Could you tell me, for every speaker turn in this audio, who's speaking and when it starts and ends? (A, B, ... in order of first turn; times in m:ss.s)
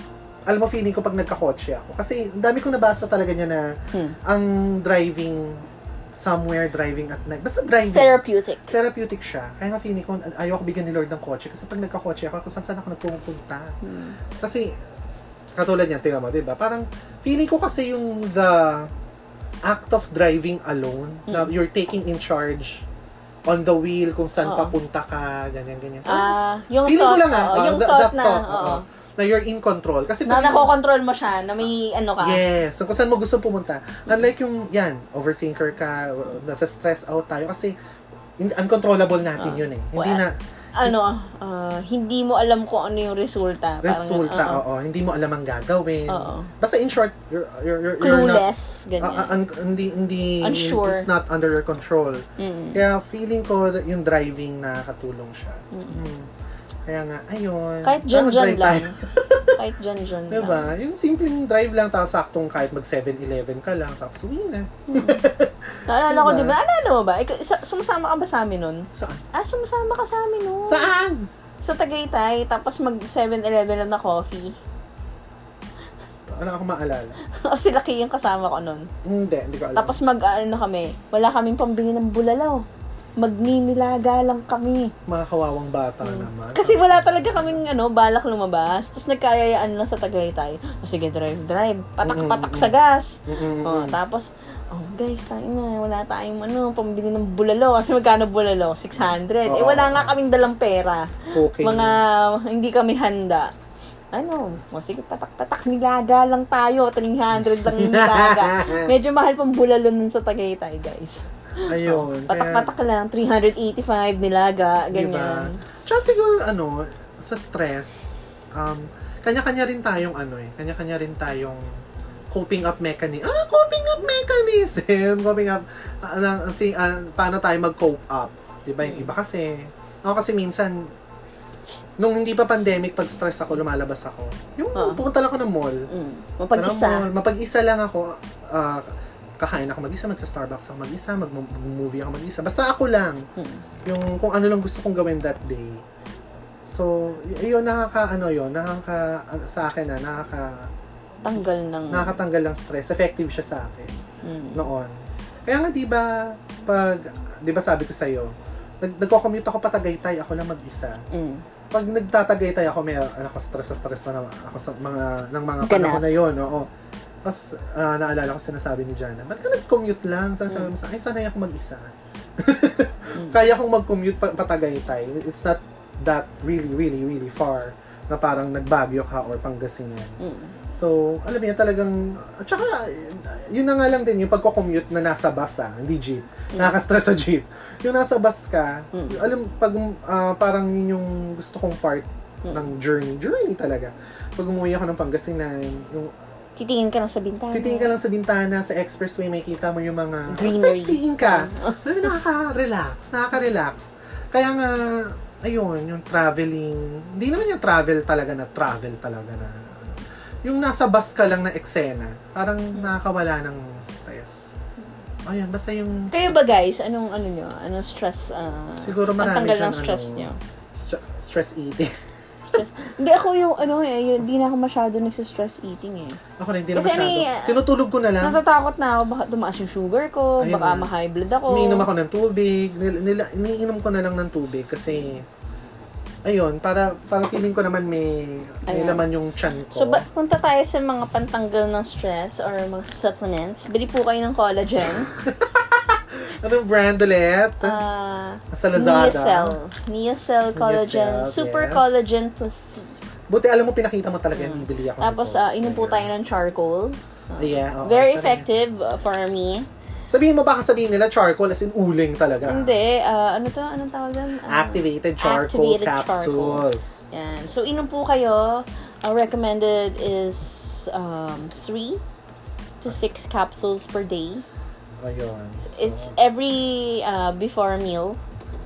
0:00.5-0:13.8 A
0:07.9-0:08.7 B
0:13.8-0:14.2 B
0:14.4-0:14.7 A
0:15.5-0:18.9 A
0:19.6-0:22.8 A
0:21.3-0:21.5 B
0:23.4-0:26.3 A
0:24.4-0:24.7 B
0:26.0-0:28.8 B
0:26.8-0:30.7 A
0:30.2-0:32.4 B
0:32.2-0:37.7 A
0:38.4-0:41.0 A
0:39.4-0:40.2 B
0:40.8-0:44.6 B
0:43.8-0:48.5 A
0:46.1-0:46.5 B
0:48.0-0:49.3 B
0:49.0-0:56.3 A
0:50.4-0:51.1 B
0:52.4-0:52.8 B
0:55.7-0:56.0 B
0:56.8-0:59.6 A
0:57.8-1:00.7 B
1:00.3-1:06.6 A
1:04.9-1:05.2 B
1:05.9-1:10.9 B
1:08.9-1:09.2 A
1:10.6-1:11.3 A
1:11.6-1:14.5 B
1:16.3-1:17.2 A
1:17.3-1:18.9 B
1:19.0-1:20.0 A
1:19.8-1:22.6 B
1:23.2-1:24.9 B
1:25.1-1:27.6 A
1:26.0-1:43.5 B
1:32.0-1:32.7 A
1:33.3-1:34.0 A
1:39.4-1:40.1 A
1:41.3-1:42.0 A
1:44.1-1:55.6 B
1:47.6-1:48.9 A
1:51.6-1:52.7 A
1:54.9-2:01.7 A
2:02.3-2:10.9 A
2:08.8-2:09.1 B
2:12.0-2:15.9 A
2:14.7-2:15.0 B
2:15.9-2:17.1 B
2:16.5-2:23.2 A
2:23.4-2:23.6 B
2:23.8-2:25.8 A
2:26.6-2:30.7 A
2:31.2-2:32.2 B
2:31.9-2:33.9 A
2:34.2-2:34.6 B
2:34.5-2:34.9 A
2:35.4-2:41.0 A
2:41.1-2:41.4 B
2:41.7-2:46.7 A
2:45.6-2:46.1 B
2:47.2-3:00.2 A
3:00.2-3:00.6 B
3:00.7-3:16.1 A
3:08.9-3:09.3 B
3:16.6-3:17.9 B
3:17.5-3:34.5 A
3:20.3-3:22.1 B
3:35.2-3:36.1 A
3:36.1-3:40.4 B
3:38.8-3:42.6 A
3:42.4-3:46.2 B
3:46.4-3:48.4 A
3:46.7-3:47.6 B
3:48.2-3:51.9 B
3:50.4-3:50.9 A
3:51.5-3:55.3 A
3:56.2-4:00.0 A
3:58.7-3:59.0 B
3:59.7-4:05.1 B
4:05.0-4:07.8 A
4:07.6-4:13.0 B
4:08.5-4:09.6 A
4:10.5-4:12.0 A
4:13.3-4:16.1 A
4:14.3-4:19.7 B
4:17.4-4:18.5 A
4:20.1-4:22.8 A
4:22.5-4:32.0 B
4:24.4-4:27.0 A
4:32.8-4:34.4 B
4:35.0-4:36.2 A
4:35.6-4:38.2 B